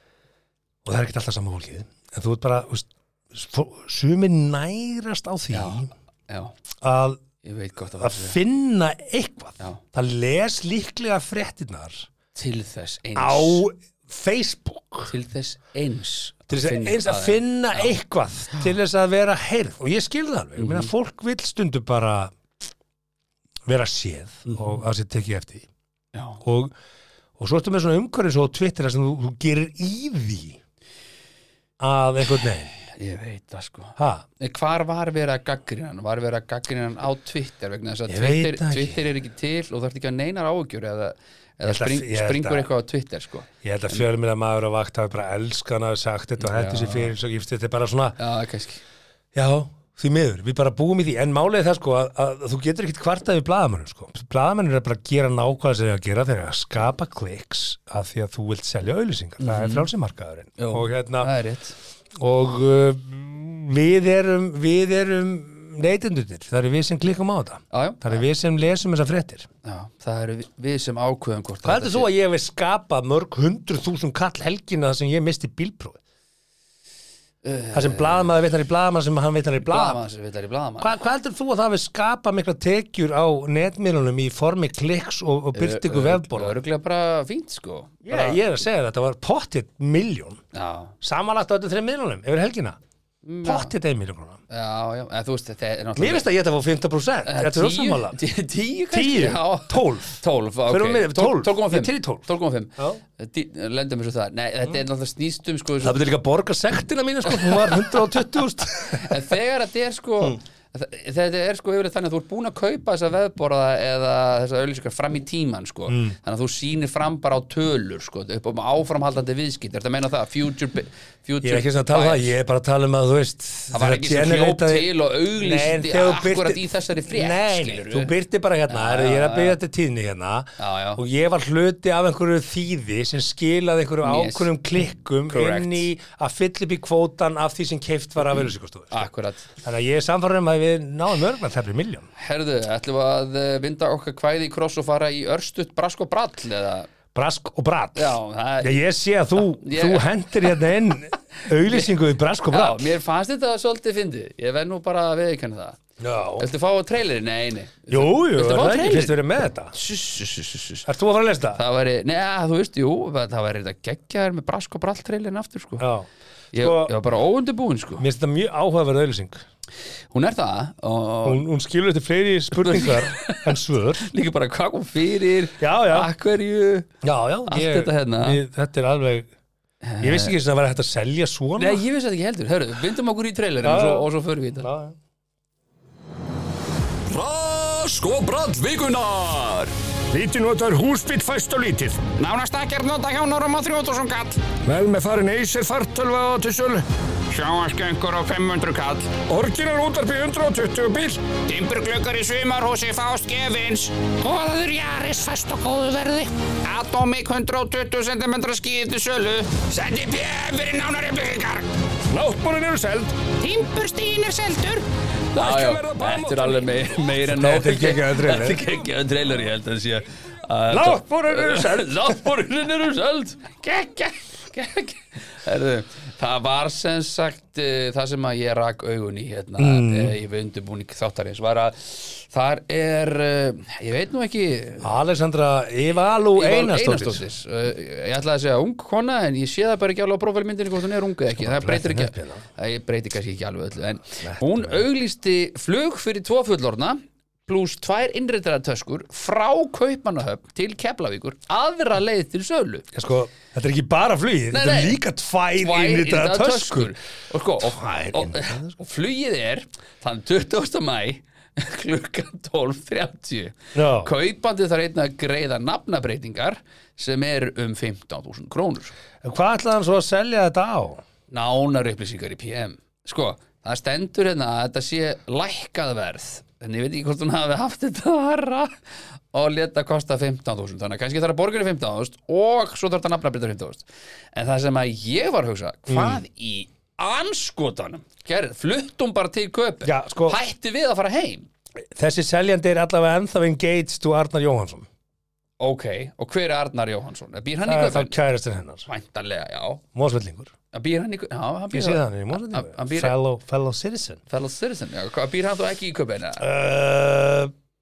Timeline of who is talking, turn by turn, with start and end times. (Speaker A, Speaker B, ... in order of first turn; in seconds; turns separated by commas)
Speaker A: 0.8-5.9, Speaker B: 5.5-6.5, Speaker A: 6.8-7.2, Speaker B: 7.4-8.4, Speaker A: 8.0-12.1, Speaker B: 12.3-13.6, Speaker A: 13.2-15.1, Speaker B: 15.1-17.9, Speaker A: 16.5-22.3, Speaker B: 20.6-20.9, Speaker A: 23.7-25.7, Speaker B: 26.1-26.4, Speaker A: 26.4-26.7, Speaker A: 27.4-30.6, Speaker A: 31.8-32.7, Speaker B: 32.8-44.0, Speaker A: 34.0-34.2, Speaker A: 38.1-39.0, Speaker A: 41.6-42.7, Speaker A: 43.6-48.2, Speaker B: 46.4-47.1, Speaker B: 48.2-48.8, Speaker A: 49.4-61.3, Speaker B: 59.4-59.9, Speaker B: 60.6-61.8, Speaker A: 62.2-69.5, Speaker B: 67.7-68.2, Speaker B: 69.7-72.1, Speaker A: 71.7-76.0, Speaker B: 77.4-78.3, Speaker A: 77.7-80.0, Speaker B: 79.6-81.0, Speaker A: 80.8-86.5, Speaker B: 85.5-88.4, Speaker A: 88.0-90.4, Speaker B: 90.5-91.0, Speaker A: 91.0-92.8, Speaker B: 93.2-93.7, Speaker A: 93.4-94.4, Speaker B: 94.5-96.3, Speaker A: 96.0-98.2, Speaker B: 97.3-106.0, Speaker A: 98.9-102.2, Speaker A: 105.8-109.2, Speaker B: 107.3-108.0, Speaker B: 108.9-122.3, Speaker A: 115.9-116.2, Speaker A: 121.4-139.1, Speaker B: 123.7-128.1, Speaker B: 128.7-129.6, Speaker B: 130.6-131.0, Speaker B: 134.0-134.5, Speaker B: 135.3-135.9, Speaker B: 138.9-139.5, Speaker A: 139.6-142.1, Speaker B: 142.2-146.9, Speaker A: 147.1-152.8, Speaker B: 148.0-148.8, Speaker B: 149.4-150.6, Speaker B: 151.7-151.9, Speaker B: 152.5-155.8, Speaker A: 156.0-156.5, Speaker B: 156.4-159.2, Speaker A: 157.9-159.8, Speaker B: 159.8-160.9, Speaker A: 160.9-161.6, Speaker B: 161.6-165.8, Speaker A: 165.8-166.9, Speaker B: 166.5-168.1, Speaker A: 168.0-169.4, Speaker B: 170.1-171.4, Speaker A: 171.2-174.1, Speaker B: 172.6-176.9, Speaker A: 175.6-176.1, Speaker A: 177.0-179.3, Speaker B: 177.5-178.4, Speaker B: 179.8-180.3, Speaker A: 180.0-181.8, Speaker B: 181.6-184.7, Speaker A: 183.6-184.1, Speaker A: 184.6-185.0, Speaker C: 187.1-189.7, Speaker D: 190.1-192.0, Speaker C: 192.0-194.5, Speaker D: 194.6-196.8, Speaker C: 197.3-199.2, Speaker D: 199.3-201.2, Speaker C: 201.3-211.7, Speaker D: 212.1-213.2, Speaker C: 213.3-214.8, Speaker B: 215.3-234.9, Speaker D: 215.4-216.6, Speaker A: 217.2-218.6, Speaker A: 220.7-222.2, Speaker A: 229.6-230.2, Speaker A: 234.8-237.2, Speaker B: 236.4-252.9, Speaker A: 241.4-242.4, Speaker A: 244.2-244.8, Speaker A: 252.9-256.9, Speaker B: 254.5-255.0, Speaker B: 255.6-268.9, Speaker A: 257.6-258.7, Speaker A: 263.8-264.1, Speaker A: 269.2-271.0, Speaker B: 271.3-278.8, Speaker B: 279.3-291.5, Speaker A: 285.9-286.2, Speaker A: 289.8-290.4, Speaker A: 291.9-294.9, Speaker B: 295.6-298.2, Speaker A: 297.7-298.9, Speaker B: 298.9-299.8, Speaker A: 299.9-300.5, Speaker B: 300.7-303.1, Speaker A: 301.7-304.2, Speaker B: 304.3-306.4, Speaker A: 306.4-307.5